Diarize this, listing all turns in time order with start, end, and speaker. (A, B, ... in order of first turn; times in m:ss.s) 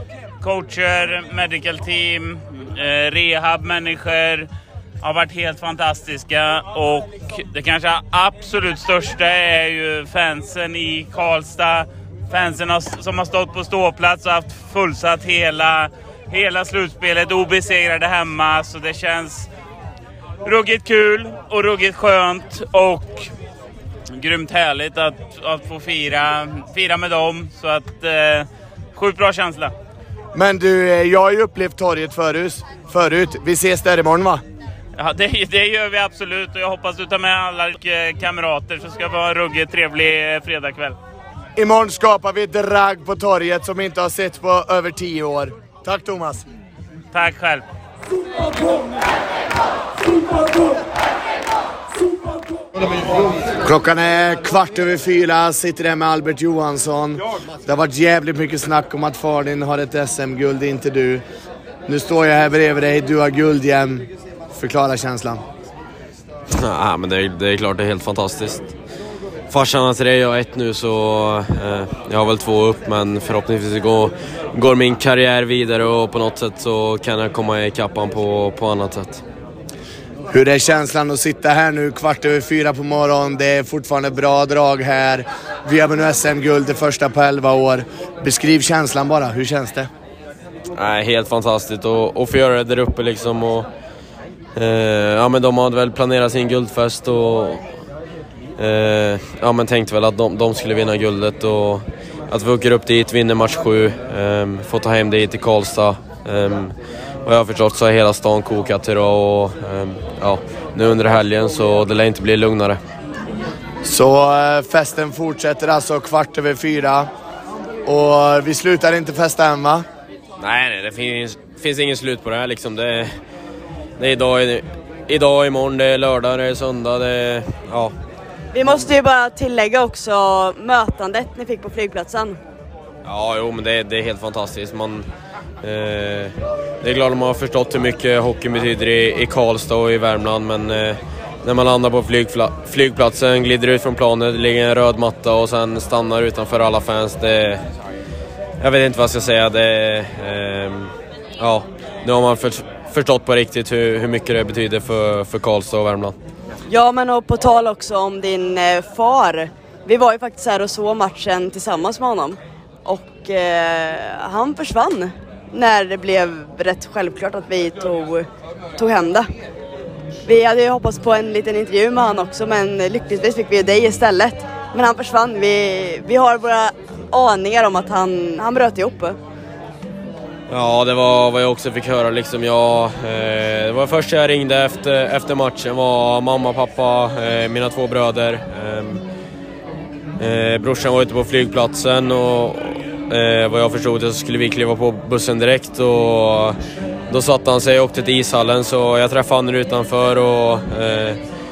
0:00.4-0:04.5 A
0:05.0-0:19.5 A
0:20.4-0:23.3 A
0:24.1-0:29.7 A
0:30.3-0:34.4 B
0:35.0-0:41.0 A
0:41.6-0:46.5 B
0:47.1-0:47.6 A
0:53.6-1:01.2 B
1:01.9-1:05.4 B
1:06.5-1:08.7 C
1:09.5-1:19.2 C
1:20.3-1:29.9 B
1:30.7-1:33.7 C
1:34.6-1:37.7 C
1:38.6-1:52.8 C
1:53.8-1:57.1 B
1:57.8-1:59.8 B
2:00.4-2:03.2 C
2:04.0-2:08.0 C
2:08.5-2:12.4 D
2:08.6-2:08.9 C
2:13.0-2:15.1 C
2:15.6-2:27.6 C
2:28.6-2:36.2 C
2:36.7-2:49.3 D
2:50.2-2:59.2 D
3:00.5-3:09.0 C
3:10.2-3:16.6 C
3:17.1-3:21.2 C